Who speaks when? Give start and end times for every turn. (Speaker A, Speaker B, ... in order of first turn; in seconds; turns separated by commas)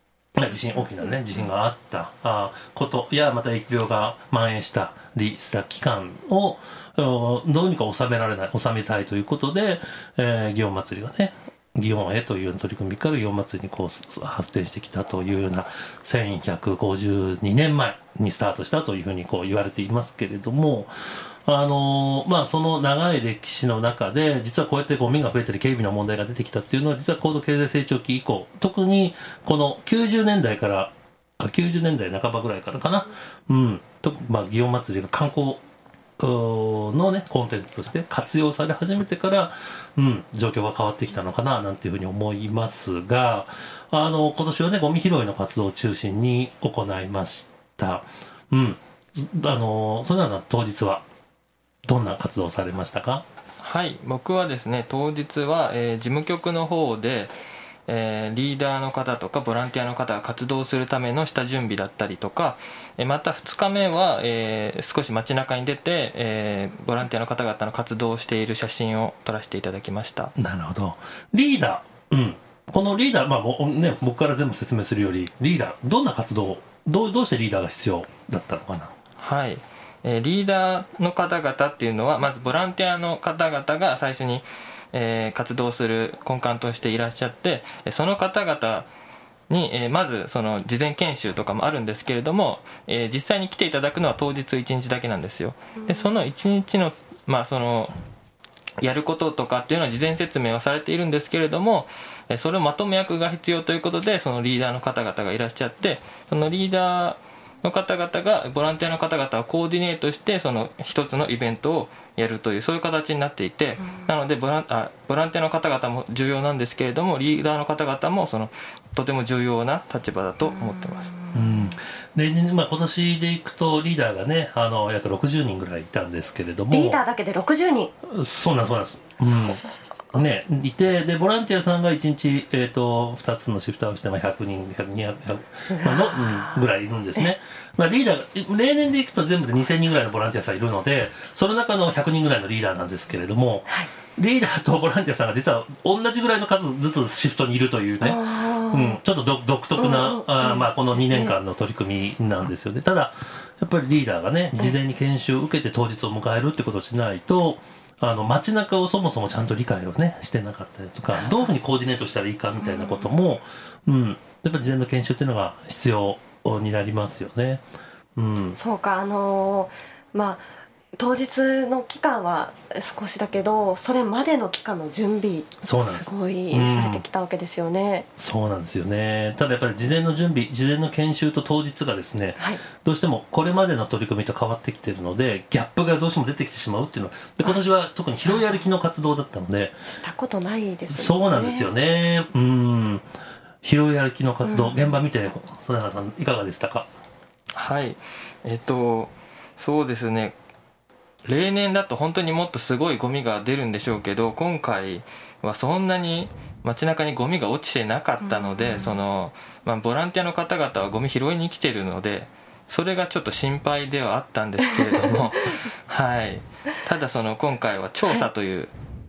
Speaker A: 0.3-35.6, Speaker A: 36.2-51.0, Speaker A: 51.9-53.2, Speaker B: 53.6-57.3, Speaker B: 57.9-70.3, Speaker A: 70.4-78.9, Speaker B: 79.2-88.9, Speaker B: 89.5-97.9, Speaker B: 98.8-121.2, Speaker A: 121.3-127.0, Speaker C: 126.7-127.9, Speaker A: 128.0-167.6, Speaker C: 135.7-136.6, Speaker C: 148.0-149.0, Speaker C: 149.8-151.3, Speaker C: 161.2-161.5, Speaker C: 162.8-163.0, Speaker A: 168.2-168.6, Speaker C: 168.6-170.4, Speaker C: 171.0-178.1, Speaker A: 175.6-177.0, Speaker A: 178.2-189.9, Speaker C: 189.9-191.7, Speaker A: 190.9-193.1, Speaker A: 193.6-196.9, Speaker C: 194.5-194.8, Speaker B: 197.5-200.3, Speaker B: 201.2-218.7